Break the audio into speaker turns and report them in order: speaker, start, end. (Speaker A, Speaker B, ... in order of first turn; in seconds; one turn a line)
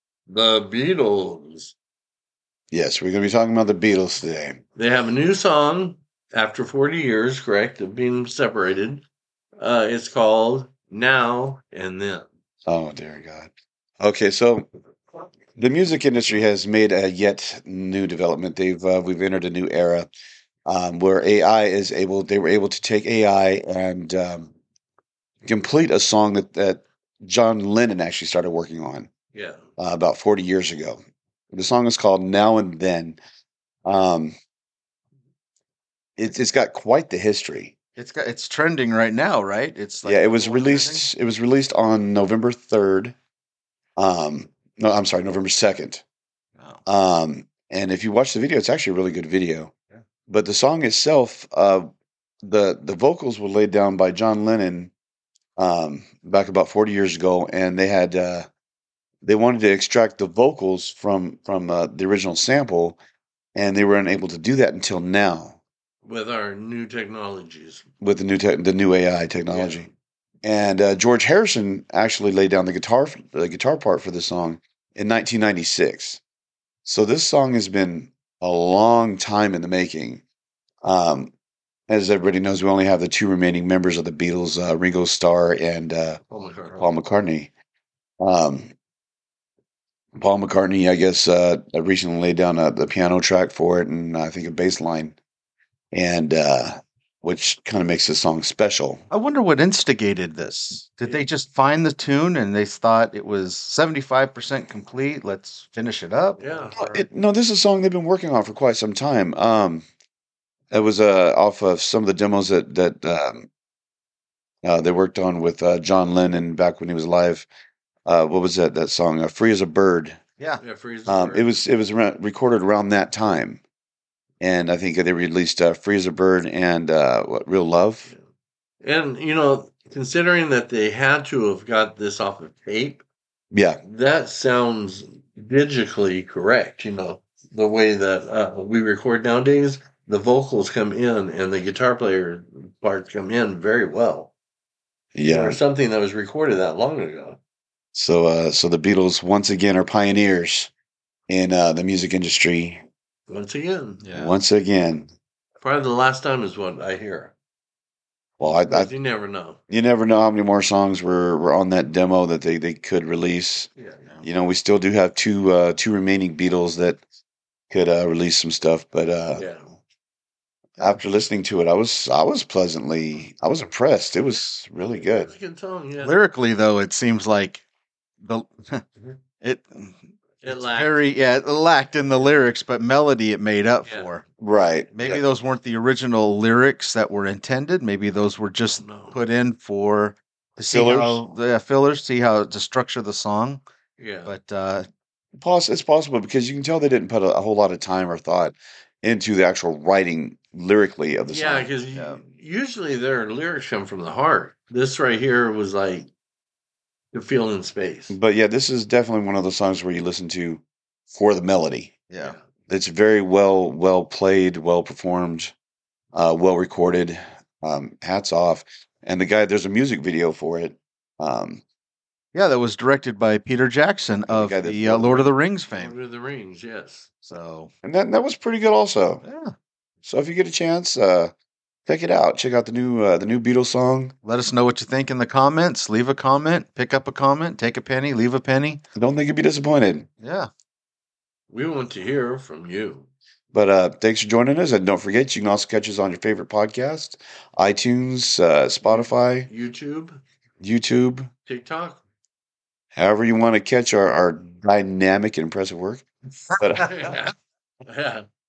Speaker A: 0.3-1.7
Speaker B: 2.7-4.6
Speaker A: 4.8-9.0
Speaker A: 9.6-12.2
Speaker B: 12.7-14.7
Speaker B: 15.6-20.1
Speaker B: 20.7-24.5
Speaker B: 25.4-29.1
Speaker A: 29.3-29.6
Speaker B: 29.8-31.0
Speaker B: 31.5-33.2
Speaker B: 33.8-34.4
Speaker B: 36.2-37.7
Speaker C: 38.0-41.1
Speaker B: 40.0-43.1
Speaker B: 44.0-46.0
Speaker C: 46.6-46.8
Speaker B: 46.9-49.7
Speaker B: 50.3-51.9
Speaker B: 52.5-54.9
Speaker B: 55.6-58.5
Speaker B: 59.2-63.0
Speaker B: 63.6-65.6
Speaker A: 66.0-67.9
Speaker B: 68.0-69.9
Speaker A: 69.5-69.9
Speaker B: 70.4-76.2
Speaker B: 76.8-80.2
Speaker B: 80.8-81.3
Speaker B: 81.9-86.2
Speaker A: 86.3-87.0
Speaker B: 86.8-87.5
Speaker B: 88.2-88.7
Speaker B: 90.2-95.2
Speaker B: 95.9-99.0
Speaker C: 99.1-106.7
Speaker A: 101.0-101.3
Speaker A: 106.4-107.0
Speaker B: 106.8-109.8
Speaker B: 110.7-113.5
Speaker B: 114.6-117.5
Speaker B: 118.0-120.2
Speaker A: 120.6-121.5
Speaker B: 121.1-123.6
Speaker B: 124.4-128.1
Speaker A: 128.8-133.0
Speaker B: 133.5-133.8
Speaker A: 133.8-144.3
Speaker B: 145.1-145.6
Speaker A: 145.3-147.4
Speaker B: 147.9-150.7
Speaker B: 151.3-152.8
Speaker A: 153.3-154.0
Speaker C: 154.0-154.3
Speaker B: 154.1-155.1
Speaker A: 155.6-157.3
Speaker B: 158.4-158.9
Speaker A: 158.7-159.6
Speaker B: 159.7-163.7
Speaker A: 163.8-164.0
Speaker B: 164.2-167.0
Speaker B: 167.7-169.4
Speaker A: 169.3-169.7
Speaker B: 170.8-175.3
Speaker A: 175.0-176.2
Speaker C: 176.0-177.6
Speaker C: 178.2-178.8
Speaker C: 179.4-184.2
Speaker A: 180.4-181.0
Speaker A: 183.8-184.1
Speaker B: 184.4-185.2
Speaker C: 184.9-193.6
Speaker A: 188.6-189.2
Speaker B: 190.7-191.2
Speaker A: 194.0-194.3
Speaker C: 194.2-194.9
Speaker B: 195.4-201.7
Speaker A: 201.3-206.1
Speaker C: 201.9-202.2
Speaker A: 207.1-208.2
Speaker B: 208.1-211.9
Speaker C: 212.1-212.3
Speaker A: 212.2-212.4
Speaker B: 212.7-215.5
Speaker B: 216.1-221.6
Speaker C: 222.3-226.0
Speaker B: 224.3-225.3
Speaker A: 225.7-227.1
Speaker C: 227.2-227.7
Speaker B: 227.8-229.2
Speaker C: 229.2-229.5
Speaker B: 230.0-231.3
Speaker B: 231.9-234.1
Speaker C: 234.2-238.8
Speaker B: 238.9-240.1
Speaker C: 240.2-240.5
Speaker A: 241.5-243.1
Speaker B: 243.5-249.5
Speaker A: 248.8-250.2
Speaker B: 250.6-251.3
Speaker A: 251.4-252.0
Speaker B: 252.9-256.1
Speaker B: 256.6-257.1
Speaker A: 256.6-257.3
Speaker A: 257.9-258.2